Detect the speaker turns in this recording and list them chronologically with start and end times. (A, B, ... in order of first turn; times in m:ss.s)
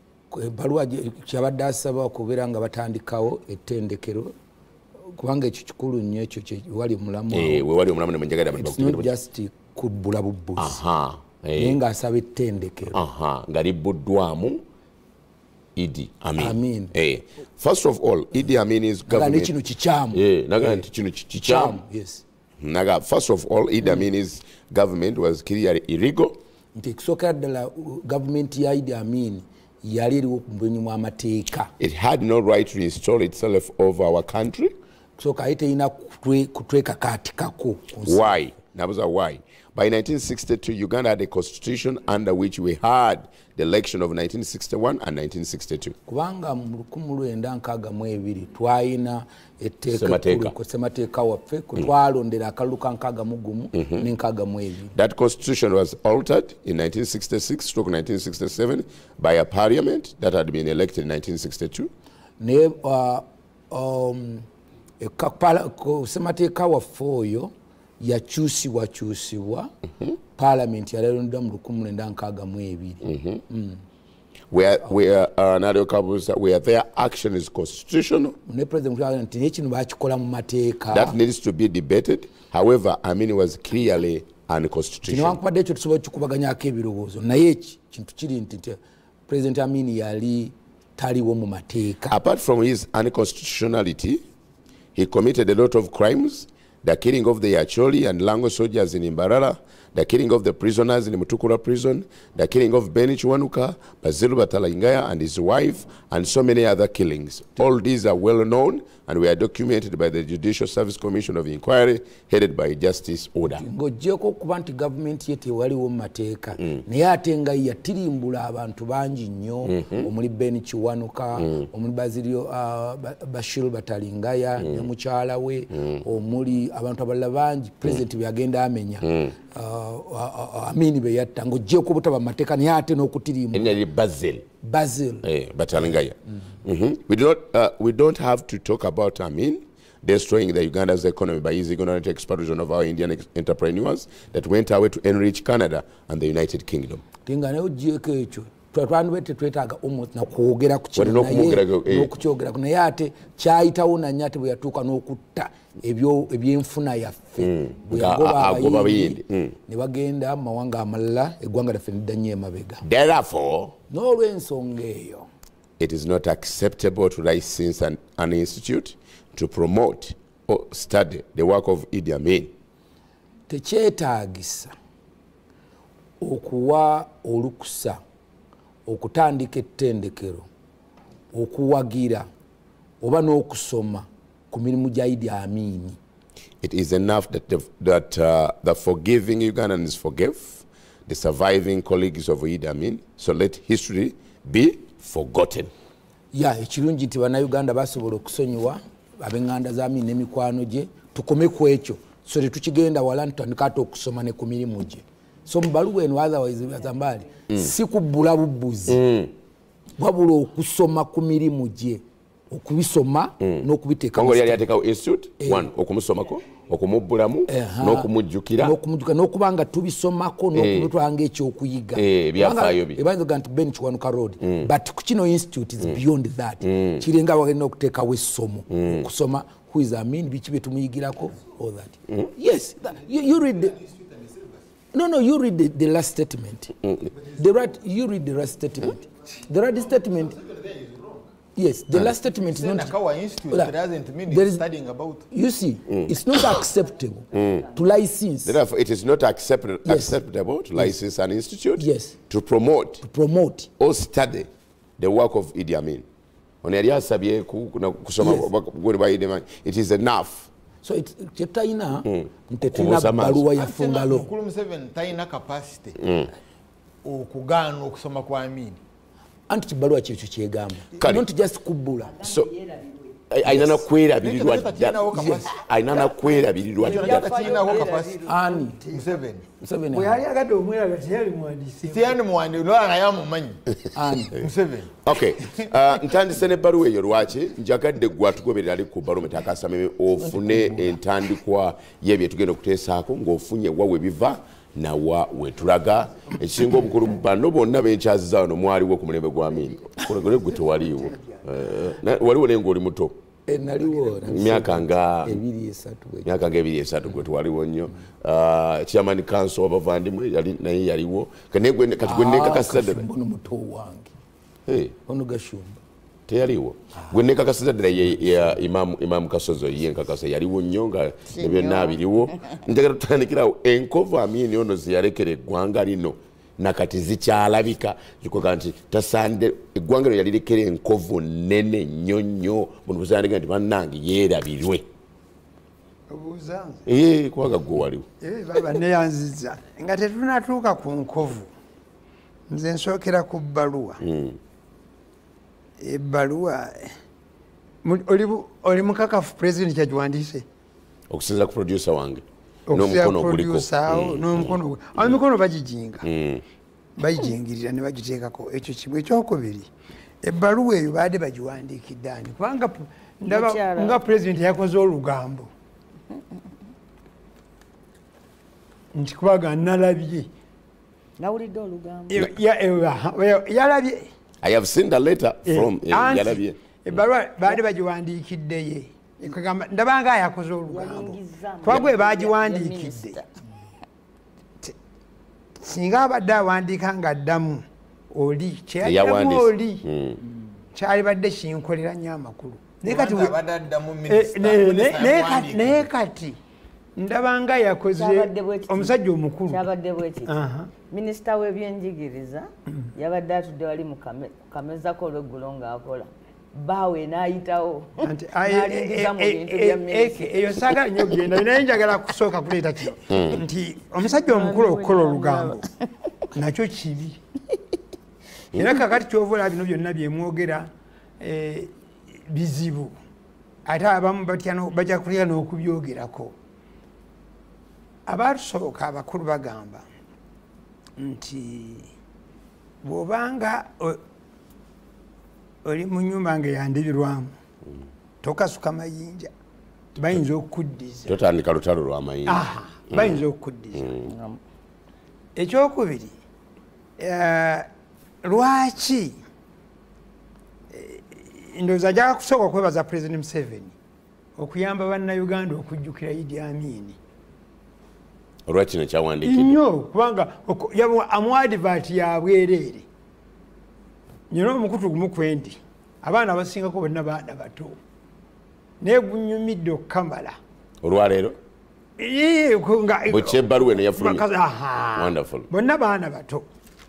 0:00.3-0:04.4 A
0:05.0-0:07.7 A
0:07.3-0:09.1 B
0:08.5-0:10.8 A
0:10.6-0:11.8 B
0:11.6-0:13.0 A
0:12.9-0:14.6 B
0:15.8-0:19.5 B
0:16.4-0:16.9 A
0:19.1-0:20.8 A
0:20.1-0:21.8 B
0:21.4-0:22.2 A
0:22.6-0:26.4 B
0:23.8-0:24.1 A
0:26.8-0:31.7 A
0:31.8-0:34.8 B
0:35.2-0:38.4 A
0:38.1-0:46.0 B
0:46.1-0:55.0 A
0:49.9-0:50.5 B
0:53.8-0:54.1 B
0:55.0-1:01.9 B
1:02.4-1:04.5 A
1:05.0-1:09.7 A
1:10.4-1:13.8 A
1:13.0-1:13.4 B
1:14.5-1:18.4 B
1:18.5-1:21.2 A
1:20.9-1:25.4 B
1:25.0-1:32.2 A
1:32.1-1:34.2 B
1:35.0-1:53.6 B
1:53.5-2:13.8 A
1:59.7-2:00.1 B
2:04.6-2:04.9 B
2:05.8-2:06.0 B
2:09.0-2:09.4 B
2:13.5-2:14.5 B
2:14.6-2:15.3 A
2:15.2-2:27.0 B
2:27.3-2:42.8 A
2:31.0-2:32.1 B
2:37.4-2:39.6 B
2:42.8-2:43.8 B
2:43.9-2:45.3 A
2:45.8-2:52.5 B
2:53.5-2:54.7 A
2:56.2-2:58.0 A
2:58.9-3:00.5 A
3:01.3-3:02.3 A
3:03.0-3:06.0 A
3:06.6-3:15.7 B
3:16.3-3:29.0 A
3:28.9-3:29.3 B
3:30.0-3:34.6 A
3:33.4-3:38.8 B
3:35.4-3:35.7 A
3:37.5-3:53.8 A
3:40.6-3:40.9 B
3:42.0-3:43.0 B
3:44.4-3:44.7 B
3:46.6-3:47.0 B
3:48.7-3:49.1 B
3:53.8-3:54.5 C
3:54.9-3:56.7 A
3:57.4-4:00.4 A
4:00.4-4:01.2 C
4:01.6-4:03.0 A
4:02.4-4:05.3 C
4:04.3-4:04.6 A
4:05.3-4:08.6 A
4:05.9-4:06.6 B
4:07.3-4:07.7 B
4:08.4-4:13.0 B
4:09.8-4:10.2 A
4:11.8-4:12.2 A
4:13.0-4:13.7 A
4:13.8-4:14.5 B
4:15.0-4:16.0 B
4:16.6-4:20.5 B
4:18.2-4:18.5 A
4:20.8-4:24.3 A
4:22.0-4:23.4 B
4:23.5-4:26.0 C
4:26.0-4:26.3 B
4:27.0-4:28.8 C
4:29.5-4:32.2 A
4:31.0-4:31.2 B
4:32.1-4:33.1 D
4:33.3-4:37.5 B
4:33.4-4:33.8 A
4:34.2-4:36.1 C
4:35.1-4:35.4 A
4:36.8-4:38.3 C
4:36.8-4:38.4 D
4:38.2-4:38.8 A
4:38.8-4:39.4 C
4:39.6-4:40.2 A
4:39.9-4:42.2 E
4:41.9-4:43.6 C
4:44.0-4:44.4 A
4:44.4-4:45.7 C
4:45.0-5:03.2 B
4:50.2-4:51.0 A
5:03.5-5:06.3 A
5:04.3-5:05.4 B
5:06.2-5:13.0 B
5:12.0-5:14.1 A
5:14.7-5:14.9 B
5:15.1-5:15.8 A
5:16.3-5:34.9 B
5:21.4-5:22.0 D
5:36.1-5:36.9 E
5:36.9-5:38.1 B
5:38.2-5:41.5 E
5:42.5-5:44.0 E
5:44.0-5:44.4 B
5:45.8-5:46.9 E
5:47.8-5:50.5 E
5:51.1-5:54.5 B
5:52.7-5:56.1 E
5:56.0-5:56.4 B
5:57.0-5:59.7 E
6:00.2-6:05.5 E
6:03.3-6:04.0 D
6:09.0-6:10.3 E
6:11.2-6:12.1 D
6:12.1-6:14.1 E
6:14.4-6:16.6 B
6:15.5-6:23.2 E
6:20.7-6:23.2 D
6:25.6-6:29.8 E
6:28.8-6:30.2 B
6:30.8-6:33.3 E
6:32.8-6:35.9 C
6:34.1-6:36.4 E
6:37.0-6:39.7 E
6:38.0-6:38.9 D
6:39.5-6:40.3 D
6:40.3-6:40.7 E
6:40.9-6:47.9 D
6:48.0-6:55.7 E
6:48.4-6:50.7 D
6:54.0-6:55.7 D
6:56.3-6:57.2 E
6:58.5-7:01.7 E
7:02.3-7:03.0 E
7:03.7-7:06.3 E
7:08.1-7:09.9 E
7:11.0-7:11.9 E
7:12.8-7:14.0 E
7:15.6-7:17.3 E
7:18.2-7:19.3 E
7:20.0-7:21.2 E
7:21.1-7:23.2 B
7:22.3-7:23.9 E
7:23.8-7:24.1 B
7:24.1-7:24.4 D
7:25.4-7:26.2 E
7:27.0-7:27.7 E
7:28.2-7:29.2 E
7:30.7-7:33.8 E
7:34.4-7:37.0 E
7:38.5-7:39.6 B
7:39.2-7:42.9 E
7:44.3-7:47.8 E
7:48.8-7:50.4 E
7:50.8-7:51.4 B
7:52.0-7:56.5 E
7:53.1-7:54.2 B
7:55.0-7:55.5 B